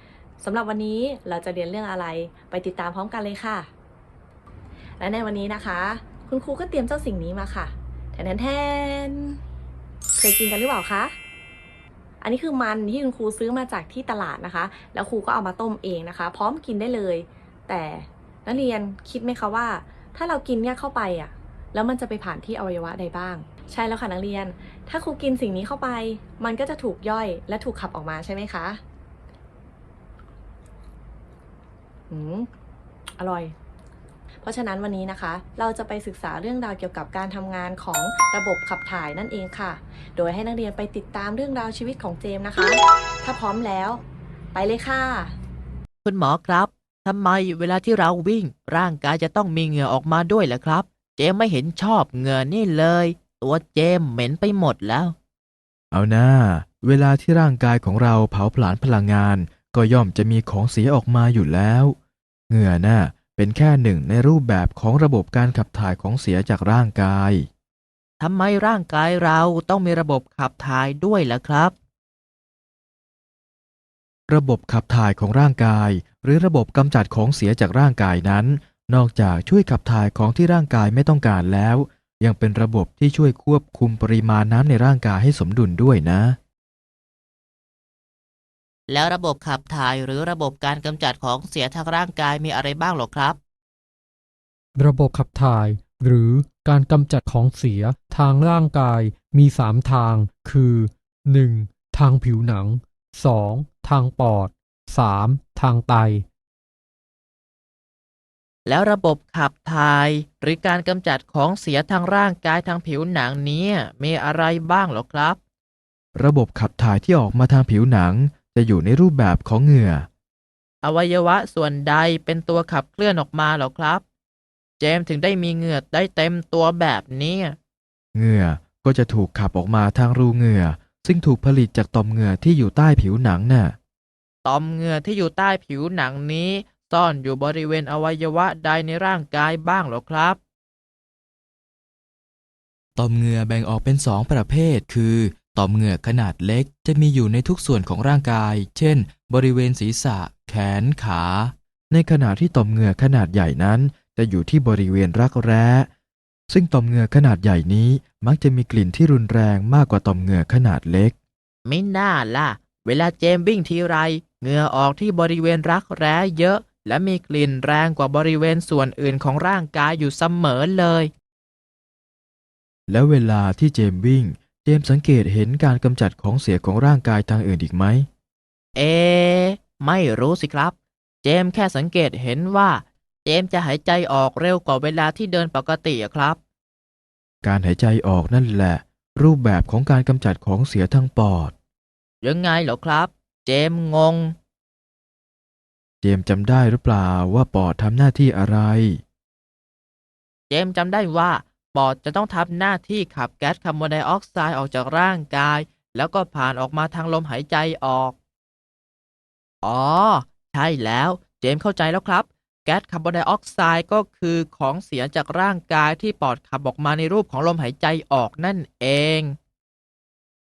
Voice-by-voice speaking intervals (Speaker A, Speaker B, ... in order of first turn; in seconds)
Speaker A: 0.4-3.7, 5.0-9.4, 10.2-11.1, 12.2-28.8, 32.1-32.5, 33.2-33.5, 34.4-44.0, 44.5-45.4
Speaker B: 46.0-55.1, 68.2-71.7, 88.9-93.4, 108.7-115.4, 120.8-124.0, 124.8-127.5, 134.4-140.4, 161.6-171.1, 178.7-186.4, 192.2-194.3, 200.5-208.1, 209.6-219.4
Speaker C: 55.9-62.0, 62.5-67.5, 74.3-86.4, 116.1-120.1, 128.1-133.8, 142.9-155.9, 156.5-161.1, 172.9-178.1, 187.4-191.5, 196.0-199.0
Speaker D: 94.7-106.2